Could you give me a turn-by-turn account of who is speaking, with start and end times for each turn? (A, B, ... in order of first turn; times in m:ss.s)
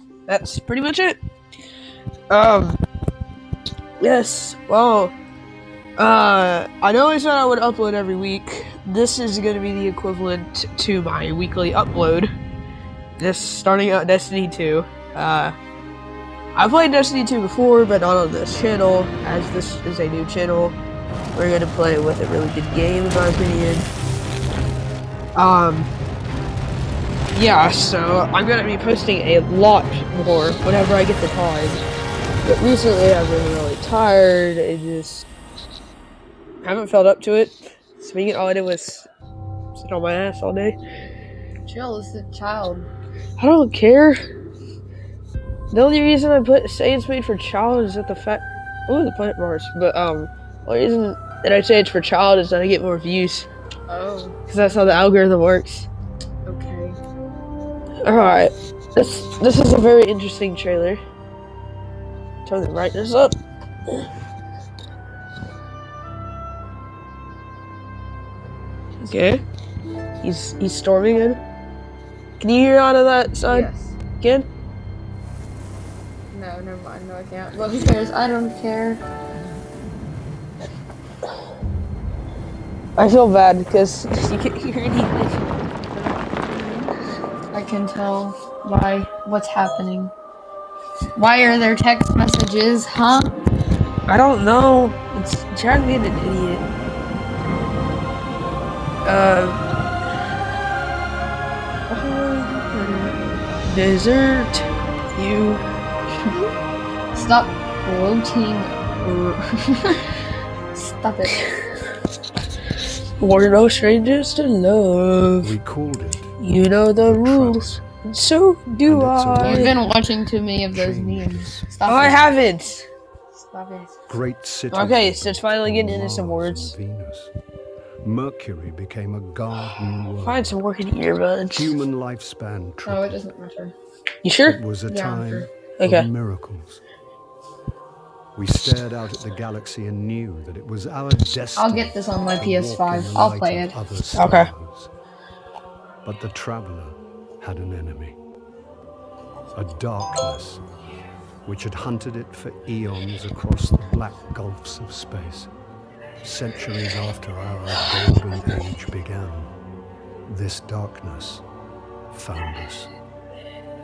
0:00.3-0:01.2 A
0:02.3-0:02.8 A
0:04.0-0:05.1 A
0:06.0-0:12.3 A
0:13.2-0:15.5 A
0:16.5-0:20.8 A
0:21.3-0:23.9 A
0:25.3-0:25.9 A
0:27.3-0:31.8 A
0:32.4-0:35.2 A
0:36.6-0:39.1 A
0:39.7-0:40.8 A
0:41.7-0:42.9 B
0:43.4-0:44.2 A
0:45.7-0:53.5 A
0:53.9-0:54.4 B
0:54.5-0:55.9 A
0:56.4-0:57.0 B
0:58.0-1:01.0 A
1:02.4-1:03.3 A
1:09.0-1:09.4 A
1:10.2-1:11.4 A
1:12.4-1:13.7 A
1:13.5-1:14.0 B
1:14.2-1:14.5 A
1:16.3-1:19.0 B
1:23.0-1:25.5 A
1:25.9-1:26.2 B
1:27.5-1:30.1 B
1:31.1-1:33.3 B
1:34.1-1:36.7 A
1:39.0-1:39.6 A
1:41.9-1:45.6 A
1:46.1-1:46.5 B
1:47.1-1:50.0 B
1:50.7-1:51.5 B
1:53.2-1:55.5 A
1:55.4-1:56.4 C
1:56.4-1:59.8 A
1:57.0-1:57.8 C
1:58.8-1:59.9 C
1:59.4-2:02.3 B
2:00.7-2:02.1 C
2:01.8-2:02.8 A
2:03.3-2:04.0 B
2:04.1-2:07.3 C
2:04.7-2:06.7 A
2:08.0-2:10.6 C
2:10.2-2:11.7 A
2:11.5-2:13.2 C
2:12.8-2:13.7 B
2:14.2-2:14.6 A
2:14.4-2:16.8 C
2:14.9-2:15.5 B
2:15.8-2:16.1 A
2:18.4-2:24.9 C
2:21.6-2:23.7 B
2:24.1-2:24.5 A
2:26.0-2:28.2 C
2:29.5-2:30.6 C
2:31.4-2:35.5 C
2:36.2-2:39.5 C
2:40.3-2:41.4 C
2:42.1-2:42.9 C